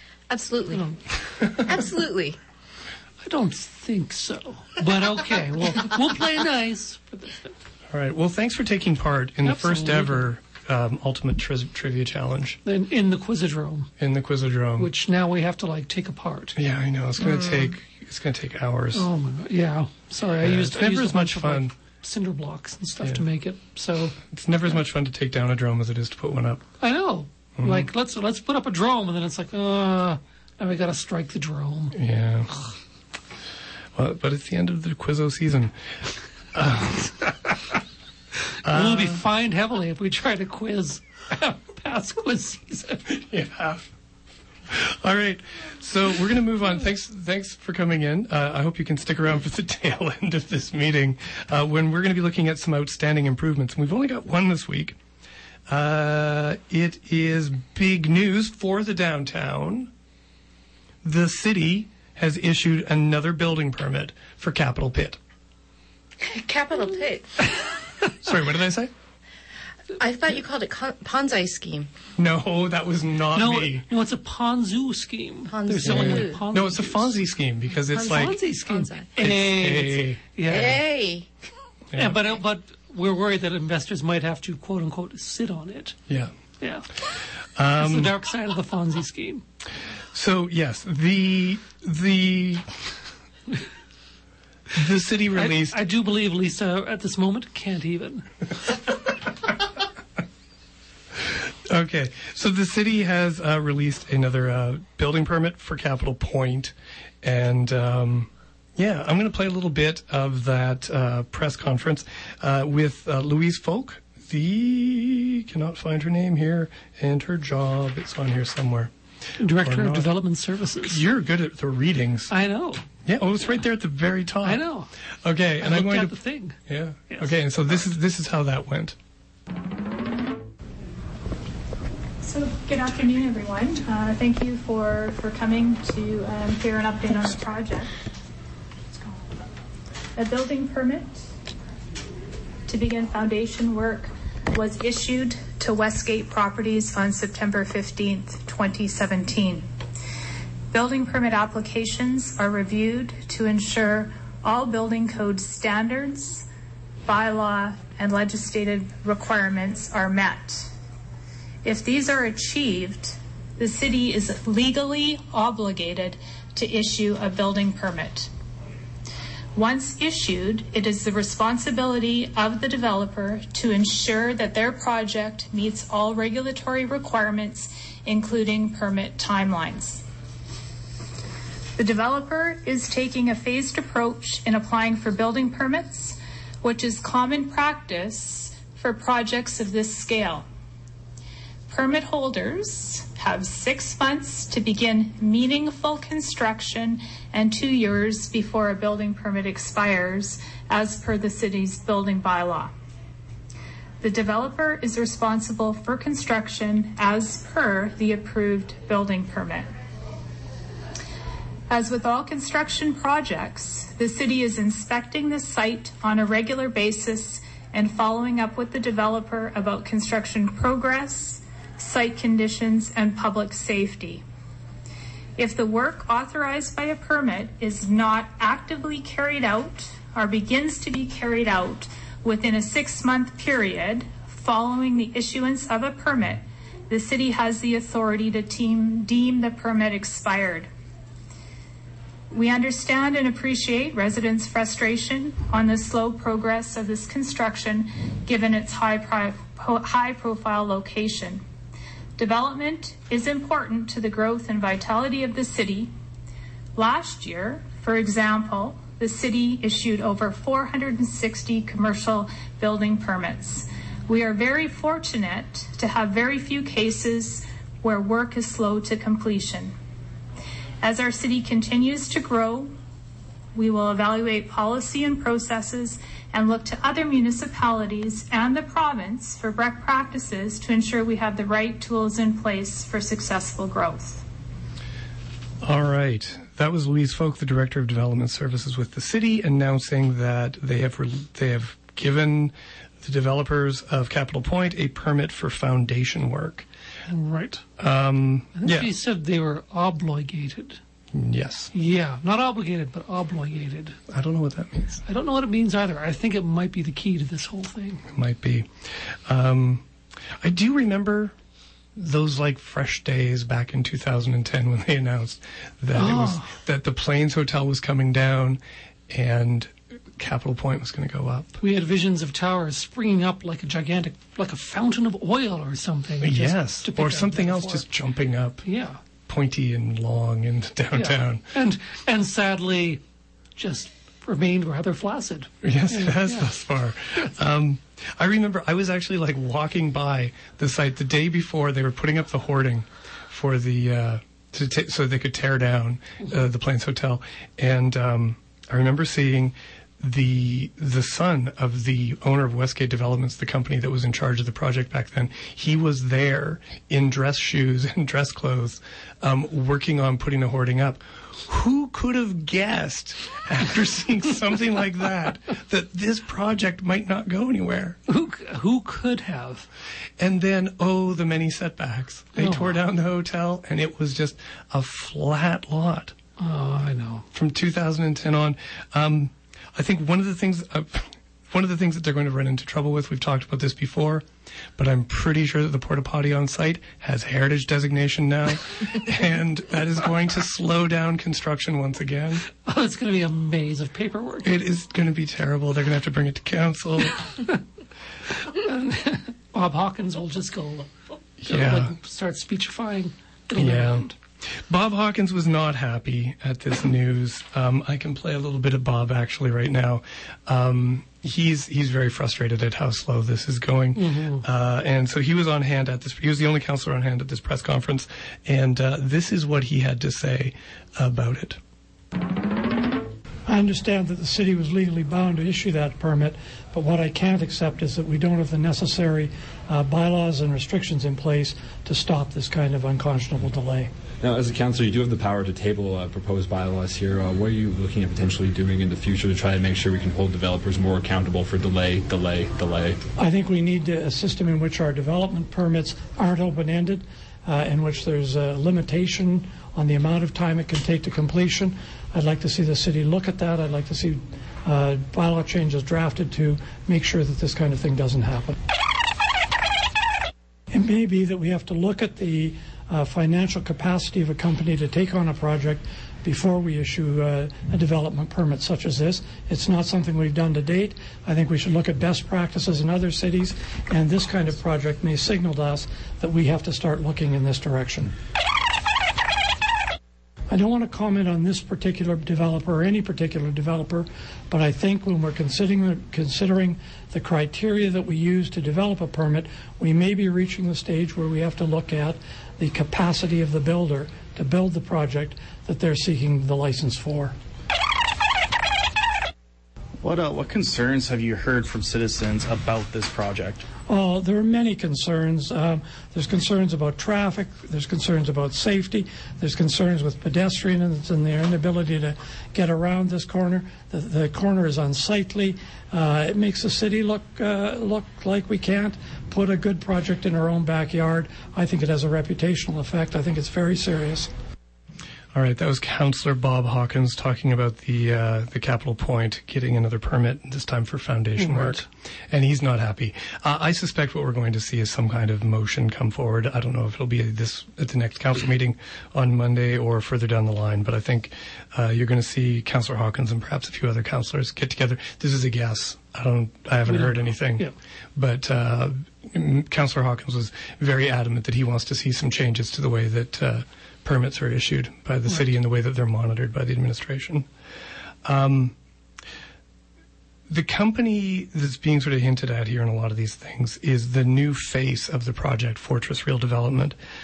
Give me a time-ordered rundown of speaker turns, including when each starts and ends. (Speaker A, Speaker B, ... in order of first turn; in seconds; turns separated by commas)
Speaker A: 0.3-0.9, Speaker B: 0.7-1.0, Speaker A: 1.4-2.4, Speaker B: 3.2-7.5, Speaker C: 7.9-12.6, Speaker B: 9.4-10.3, Speaker B: 12.6-13.9, Speaker C: 14.0-14.9, Speaker B: 14.8-16.6, Speaker C: 16.6-19.1, Speaker B: 17.2-17.7, Speaker B: 18.9-24.1, Speaker C: 20.3-21.7, Speaker C: 24.3-26.6, Speaker B: 26.8-32.0, Speaker C: 27.6-27.9, Speaker C: 31.9-32.5, Speaker C: 33.9-35.7, Speaker C: 36.5-37.3, Speaker B: 38.6-43.0, Speaker C: 38.6-39.2, Speaker C: 43.1-43.9, Speaker C: 44.7-55.0, Speaker C: 55.7-59.9, Speaker C: 61.0-65.2, Speaker A: 66.2-67.6, Speaker C: 68.2-68.9, Speaker A: 69.9-71.9, Speaker C: 72.2-73.8, Speaker B: 73.3-77.1, Speaker A: 75.5-76.5, Speaker C: 75.8-78.4, Speaker B: 77.9-80.8, Speaker A: 78.7-79.1, Speaker C: 79.2-80.2, Speaker A: 80.4-81.3, Speaker C: 81.9-82.2, Speaker B: 81.9-86.0, Speaker B: 86.6-86.9, Speaker C: 87.5-88.2, Speaker B: 87.7-89.4, Speaker C: 90.1-92.6, Speaker C: 94.7-95.8, Speaker B: 95.3-98.3, Speaker C: 101.2-118.9, Speaker B: 119.4-121.0, Speaker C: 119.5-120.2, Speaker C: 120.8-122.3, Speaker B: 122.3-122.8, Speaker C: 123.0-124.7, Speaker B: 124.4-124.9, Speaker C: 125.2-128.9, Speaker B: 125.6-126.6, Speaker D: 132.2-137.9, Speaker D: 140.2-141.2, Speaker D: 142.7-149.7, Speaker D: 150.7-156.5, Speaker D: 157.0-160.7, Speaker D: 161.6-168.3, Speaker D: 169.5-180.0, Speaker D: 181.8-190.4, Speaker D: 191.7-202.7, Speaker D: 204.0-209.7, Speaker D: 211.7-224.2, Speaker D: 225.4-240.7, Speaker D: 242.3-251.4, Speaker D: 252.2-255.9, Speaker D: 256.7-269.7, Speaker D: 270.8-272.7, Speaker D: 273.5-284.2, Speaker C: 285.6-296.6, Speaker B: 297.1-297.6, Speaker C: 297.8-298.9, Speaker B: 298.6-300.8, Speaker C: 301.1-301.7, Speaker B: 301.7-304.0, Speaker C: 304.1-305.0, Speaker B: 305.1-308.0, Speaker C: 308.1-309.9, Speaker C: 310.4-311.3, Speaker C: 311.9-321.6, Speaker B: 315.9-316.5, Speaker B: 321.6-327.9, Speaker C: 326.2-328.6, Speaker B: 328.6-329.0, Speaker C: 329.2-331.4, Speaker B: 330.9-333.0, Speaker B: 333.6-336.5, Speaker C: 335.6-368.0, Speaker B: 368.1-369.7, Speaker C: 370.2-376.1, Speaker B: 372.4-372.7, Speaker B: 376.4-377.2, Speaker C: 377.3-384.2, Speaker C: 384.8-392.4, Speaker B: 392.5-394.5, Speaker C: 394.4-397.3, Speaker B: 398.4-400.9, Speaker B: 401.4-404.1, Speaker C: 401.4-401.9, Speaker C: 403.6-404.1, Speaker C: 404.7-421.6, Speaker B: 413.9-414.4, Speaker E: 423.5-433.9, Speaker F: 434.2-443.0, Speaker E: 443.2-458.6, Speaker E: 460.7-478.1, Speaker E: 480.5-497.4, Speaker G: 500.0-503.6, Speaker E: 503.9-524.3, Speaker C: 525.3-557.5, Speaker B: 531.4-531.8, Speaker B: 546.9-547.7, Speaker C: 558.2-558.8, Speaker C: 560.5-566.9